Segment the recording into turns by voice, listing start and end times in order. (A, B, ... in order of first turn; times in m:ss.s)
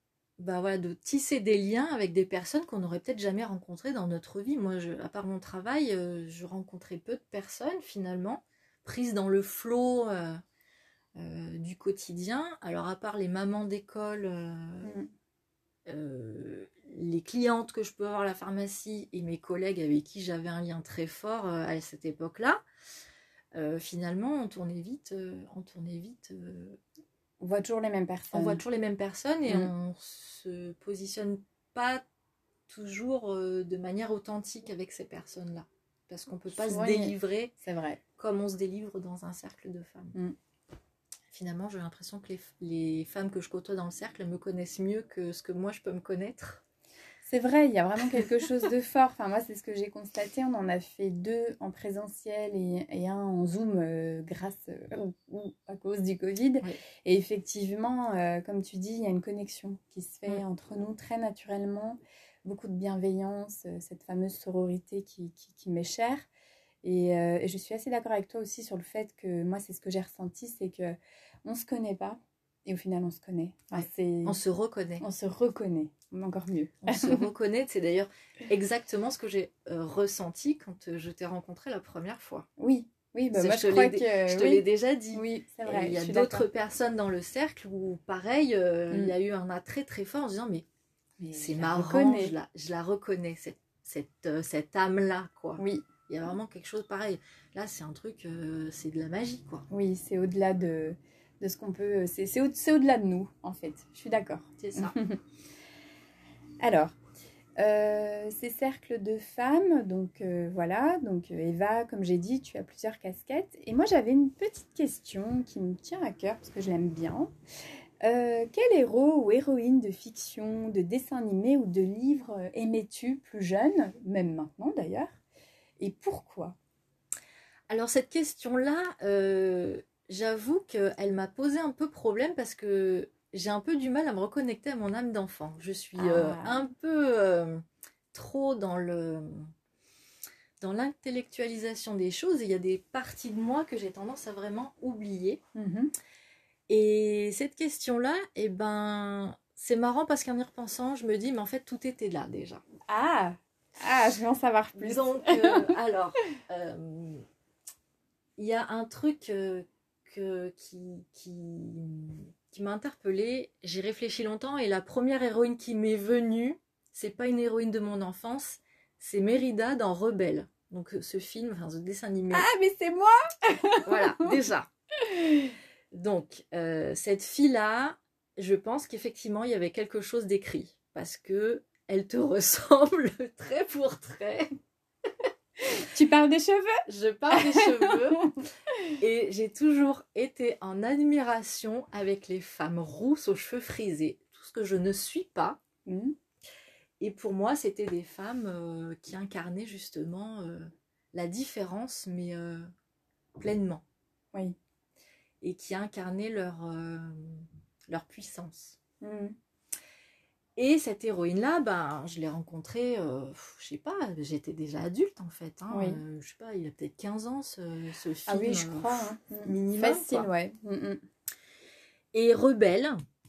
0:00.4-0:10.4 A
0:11.2-0:15.0 A
0:14.8-0:15.1 B
0:15.9-0:22.6 A
0:23.5-0:26.8 A
0:27.4-0:28.6 B
0:28.3-0:32.0 A
0:32.7-0:37.5 A
0:36.5-0:38.0 B
0:38.2-0:40.2 A
0:41.3-0:46.6 A
0:47.3-1:06.3 B
1:06.8-1:14.4 B
1:13.8-1:15.0 A
1:15.0-1:17.2 B
1:16.8-1:22.5 A
1:22.6-1:24.6 B
1:23.3-1:30.6 A
1:25.1-1:26.5 B
1:31.2-1:32.3 B
1:31.4-1:39.7 A
1:35.6-1:35.8 B
1:39.7-1:45.2 B
1:44.6-1:45.0 A
1:46.6-1:47.0 B
1:47.6-1:57.3 B
1:58.0-2:05.2 B
2:05.8-2:06.6 B
2:07.7-2:19.5 A
2:16.0-2:16.6 B
2:20.6-2:25.4 A
2:25.6-2:25.9 B
2:26.7-2:32.6 A
2:32.9-2:35.7 B
2:34.8-2:37.2 A
2:38.4-2:52.5 A
2:52.3-2:54.4 B
2:53.8-2:54.7 A
2:55.9-3:04.6 A
3:05.7-3:08.4 B
3:06.9-3:08.3 A
3:09.0-3:15.6 A
3:15.9-3:16.2 B
3:17.0-3:22.7 A
3:23.4-3:23.8 A
3:25.4-3:28.8 A
3:29.0-3:29.4 B
3:30.6-3:40.3 A
3:35.7-3:36.0 B
3:38.3-3:41.0 B
3:42.1-3:43.0 A